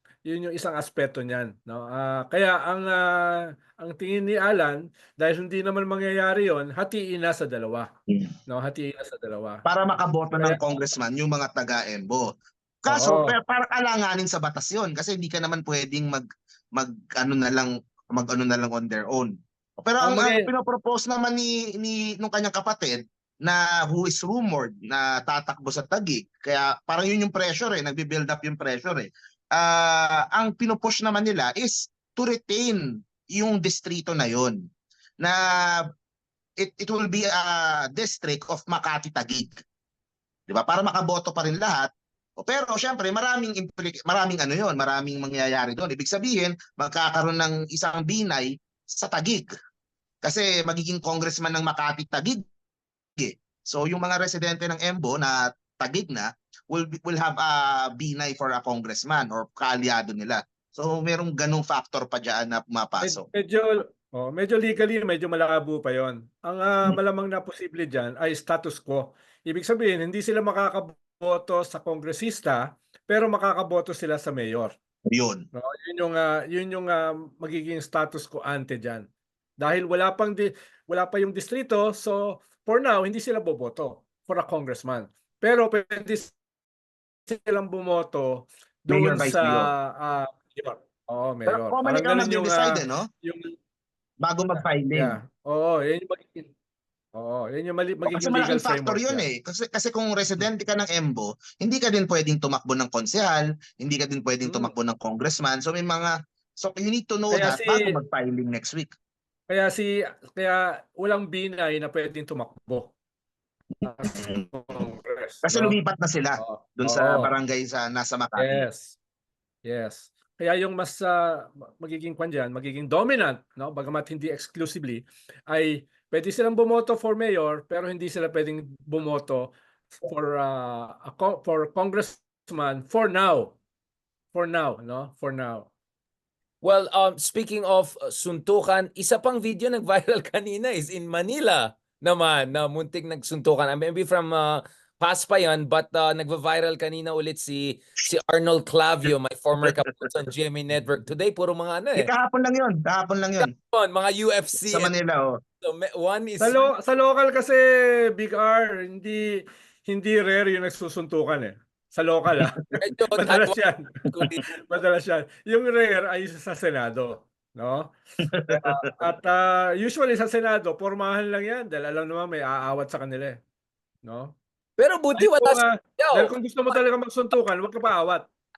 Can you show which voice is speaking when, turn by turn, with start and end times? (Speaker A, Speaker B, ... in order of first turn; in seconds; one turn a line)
Speaker A: 0.2-7.9
Speaker B: 8.1-8.3
Speaker A: 8.5-9.6
Speaker B: 9.6-12.3
Speaker B: 12.8-34.6
Speaker A: 12.9-13.4
Speaker A: 20.0-20.5
Speaker B: 35.2-35.9
Speaker B: 36.6-39.6
Speaker B: 40.5-49.5
Speaker B: 50.2-52.4
Speaker B: 53.2-63.2
Speaker A: 63.0-74.7
Speaker B: 75.1-75.5
Speaker A: 75.5-79.0
Speaker A: 79.6-86.3
Speaker A: 87.3-93.6
Speaker B: 88.9-89.7
Speaker B: 91.5-93.1
Speaker B: 94.2-95.2
Speaker A: 94.6-96.5
Speaker A: 97.1-99.2
Speaker B: 98.1-108.9
Speaker A: 104.4-104.7
Speaker A: 107.3-107.9
Speaker A: 109.5-112.9
Speaker A: 113.8-115.8
Speaker B: 114.0-114.4
Speaker B: 115.4-118.6
Speaker A: 116.4-117.3
Speaker A: 118.4-119.0
Speaker A: 119.6-133.6
Speaker A: 134.3-135.7
Speaker C: 136.6-152.1
Speaker B: 151.9-153.5
Speaker C: 153.4-154.9
Speaker B: 154.7-155.4
Speaker C: 155.6-156.7
Speaker A: 156.4-157.6
Speaker A: 158.2-159.2
Speaker A: 159.9-164.0
Speaker C: 162.8-164.6
Speaker A: 164.6-167.9
Speaker B: 168.3-168.6
Speaker A: 168.5-173.4
Speaker A: 174.0-174.4
Speaker C: 174.8-176.8
Speaker A: 175.2-178.3